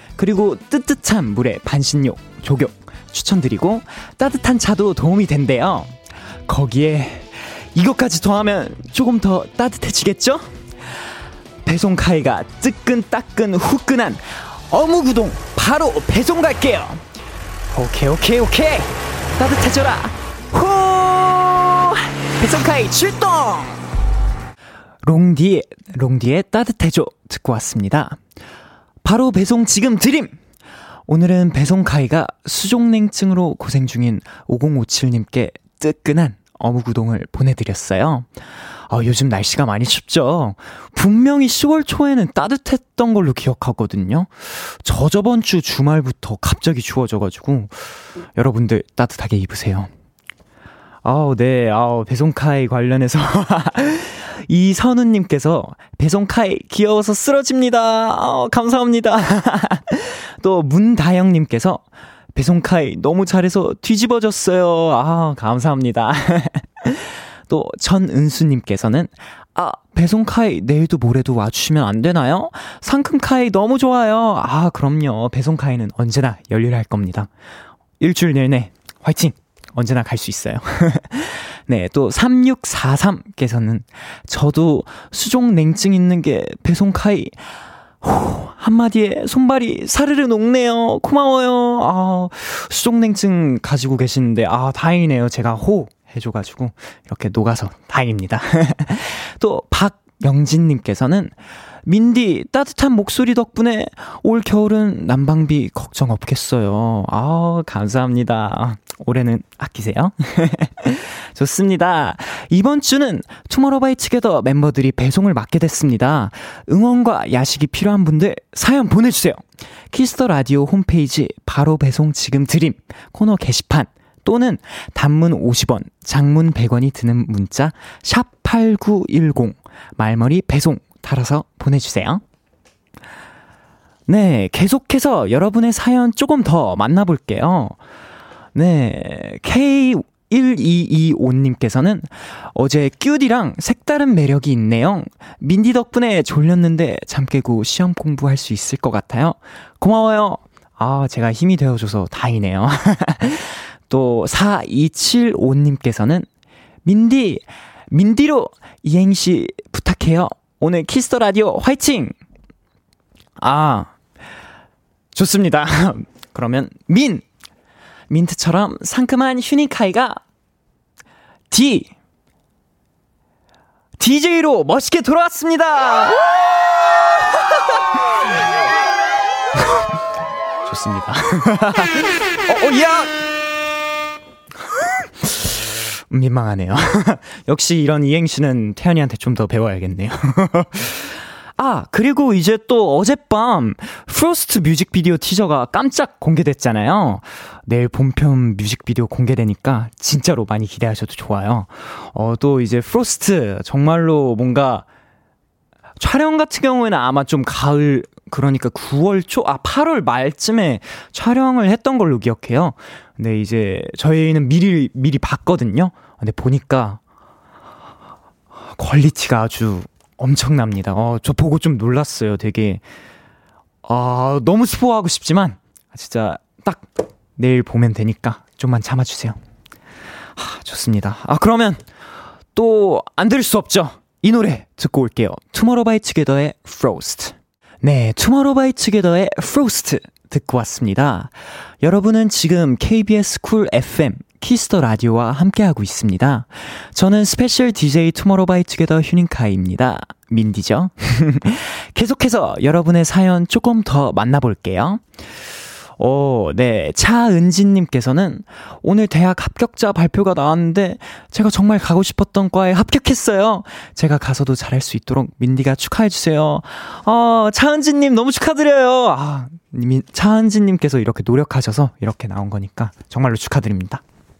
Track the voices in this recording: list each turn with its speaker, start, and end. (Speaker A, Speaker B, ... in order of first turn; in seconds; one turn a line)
Speaker A: 0.2-5.9
Speaker A: 6.5-10.5
Speaker A: 11.6-17.0
Speaker A: 17.7-23.8
Speaker A: 25.0-28.2
Speaker A: 29.0-30.3
Speaker A: 31.1-38.3
Speaker A: 38.9-47.7
Speaker A: 48.4-49.9
Speaker A: 51.0-61.8
Speaker A: 62.3-77.3
Speaker A: 78.0-87.4
Speaker A: 88.0-101.3
Speaker A: 101.8-119.4
Speaker A: 119.9-132.2
Speaker A: 134.1-137.8
Speaker A: 138.5-156.3
Speaker A: 156.8-162.1
Speaker A: 163.4-163.9
Speaker A: 165.1-167.2
Speaker A: 168.1-170.2
Speaker A: 171.5-171.9
Speaker A: 174.0-176.6
Speaker A: 180.7-183.1
Speaker A: 185.2-185.5
Speaker A: 186.1-204.8
Speaker A: 206.0-217.0
Speaker A: 218.7-222.8
Speaker A: 223.8-229.4
Speaker A: 230.4-231.8
Speaker A: 232.5-255.0
Speaker A: 256.0-274.0